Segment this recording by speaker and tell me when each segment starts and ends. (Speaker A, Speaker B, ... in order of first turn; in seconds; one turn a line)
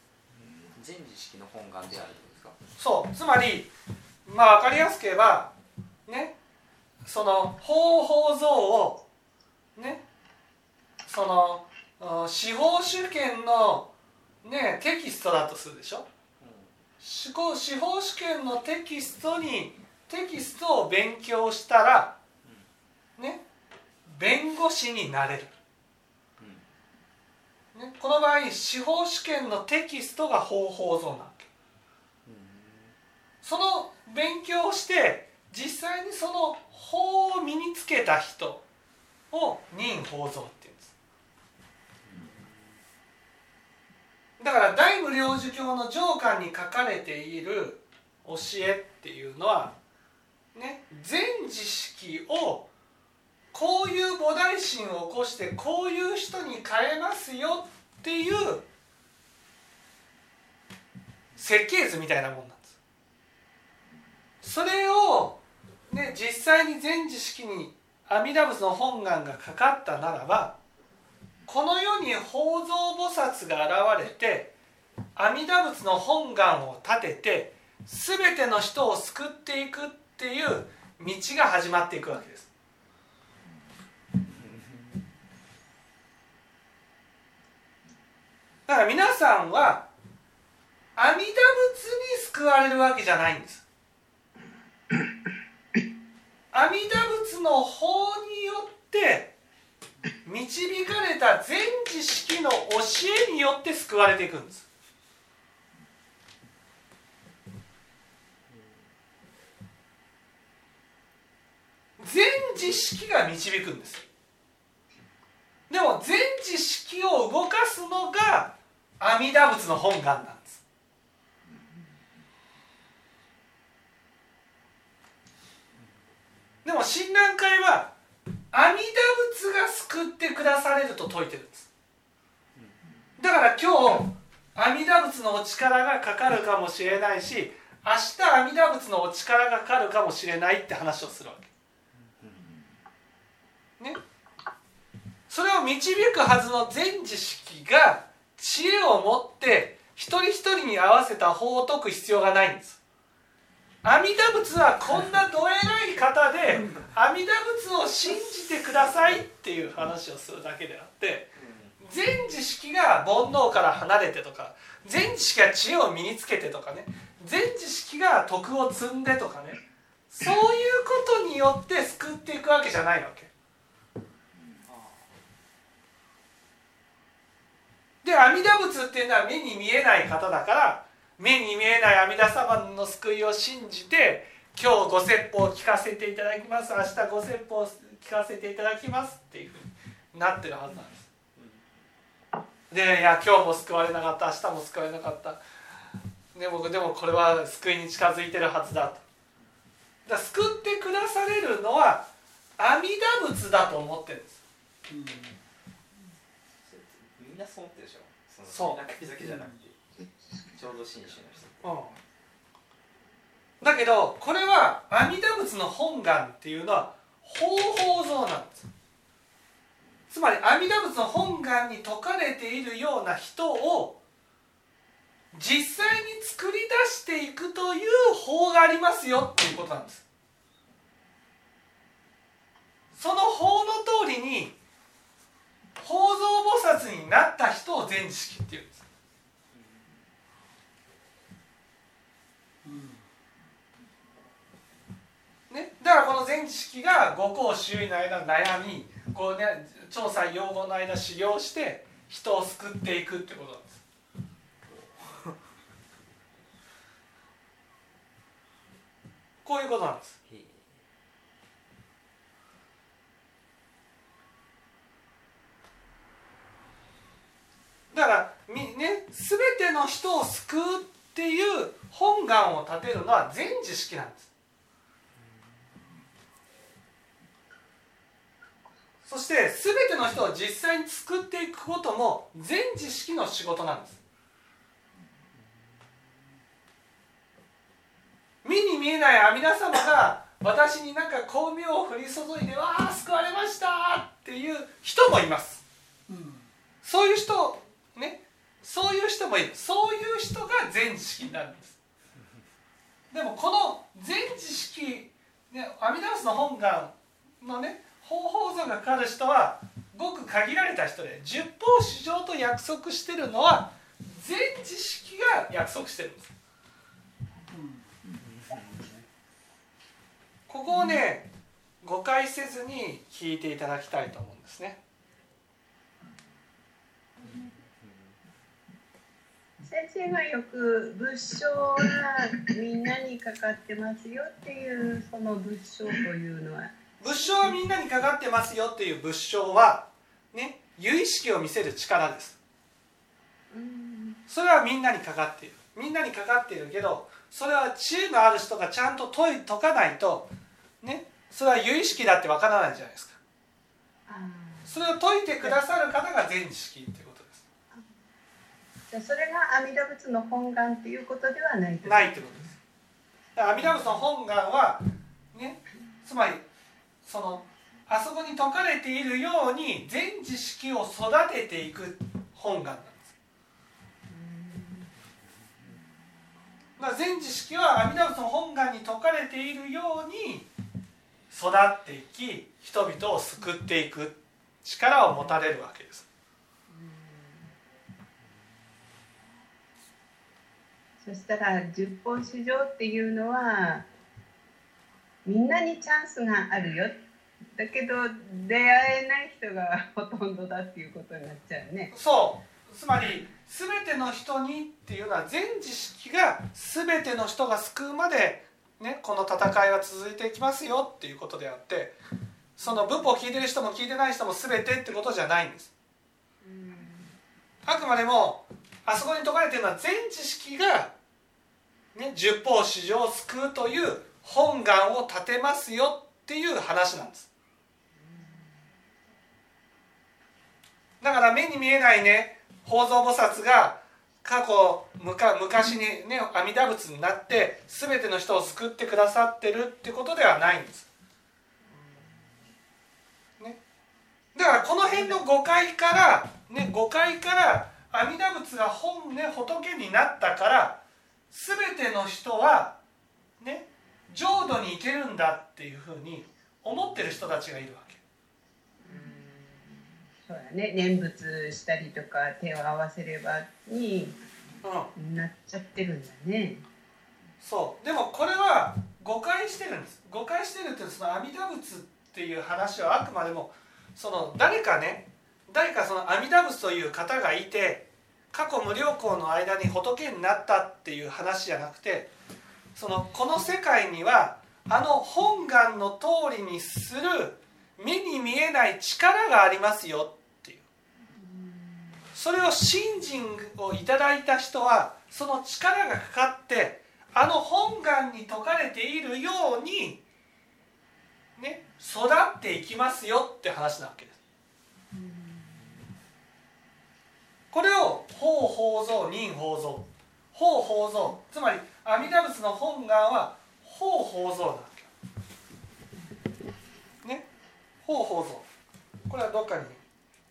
Speaker A: 0.3-2.6
Speaker B: 2.8-3.7
Speaker B: 4.2-5.5
Speaker B: 6.1-6.3
Speaker B: 7.0-9.0
Speaker B: 9.8-10.0
Speaker B: 11.1-13.9
Speaker B: 14.4-16.1
Speaker A: 16.4-16.7
Speaker B: 17.0-22.2
Speaker B: 23.2-23.4
Speaker B: 24.1-25.5
Speaker A: 26.4-26.7
Speaker B: 27.7-31.5
Speaker A: 32.2-32.9
Speaker B: 33.4-38.6
Speaker B: 39.3-40.9
Speaker A: 42.1-42.5
Speaker B: 44.4-49.8
Speaker B: 50.5-52.7
Speaker B: 53.5-58.7
Speaker B: 61.4-62.7
Speaker B: 64.4-70.6
Speaker B: 71.5-74.5
Speaker B: 75.2-82.5
Speaker B: 88.7-89.9
Speaker B: 91.0-93.6
Speaker B: 96.5-99.3
Speaker B: 100.2-104.7
Speaker B: 112.0-114.0
Speaker B: 115.7-120.6
Speaker B: 126.7-127.9
Speaker B: 128.5-131.7
Speaker B: 133.2-141.5
Speaker B: 145.3-152.8
Speaker B: 153.8-173.3
Speaker A: 161.4-161.8
Speaker A: 174.7-175.0
Speaker B: 178.0-191.1
Speaker A: 191.4-191.6
Speaker B: 192.7-195.4
Speaker B: 196.3-199.0
Speaker B: 200.1-202.1
Speaker B: 202.6-204.4
Speaker A: 206.7-209.8
Speaker B: 208.5-208.8
Speaker A: 210.5-211.6
Speaker B: 211.6-211.9
Speaker B: 213.6-218.7
Speaker B: 220.1-224.0
Speaker B: 225.3-230.1
Speaker B: 232.9-234.6
Speaker B: 235.8-238.8
Speaker A: 239.5-239.8
Speaker B: 245.5-253.8
Speaker A: 254.7-255.4
Speaker B: 259.4-260.1
Speaker A: 260.3-260.7
Speaker B: 267.9-274.3
Speaker B: 279.1-284.0
Speaker B: 288.4-295.6
Speaker B: 296.8-301.8
Speaker B: 303.1-316.3
Speaker A: 318.2-318.9
Speaker B: 320.5-321.3
Speaker B: 321.8-324.8
Speaker C: 329.6-337.6
Speaker B: 337.0-342.4
Speaker C: 343.5-344.2
Speaker B: 344.3-350.3
Speaker B: 350.8-353.2
Speaker C: 354.1-354.8
Speaker B: 354.7-357.4
Speaker C: 358.9-362.2
Speaker B: 361.8-362.6
Speaker B: 363.4-366.4
Speaker B: 367.1-373.0
Speaker C: 374.1-374.9
Speaker B: 376.8-380.5
Speaker B: 381.3-386.1
Speaker C: 386.7-387.5
Speaker C: 391.0-393.9
Speaker C: 395.2-397.0
Speaker C: 397.6-401.9
Speaker B: 401.9-412.0
Speaker B: 412.6-415.7
Speaker C: 412.6-413.0
Speaker C: 416.4-417.1
Speaker B: 417.6-420.9
Speaker B: 421.9-427.3
Speaker C: 428.0-428.6
Speaker B: 431.0-440.9
Speaker C: 441.8-442.1
Speaker B: 444.4-450.8
Speaker B: 451.3-452.8
Speaker B: 453.4-458.0
Speaker C: 458.8-464.2
Speaker B: 464.6-464.9
Speaker C: 465.0-466.6
Speaker B: 467.4-482.1
Speaker B: 482.8-490.6
Speaker C: 491.2-491.8
Speaker B: 492.1-500.0
Speaker B: 501.4-504.2
Speaker C: 504.9-505.6
Speaker B: 507.5-514.9
Speaker B: 517.9-518.5
Speaker B: 519.1-519.8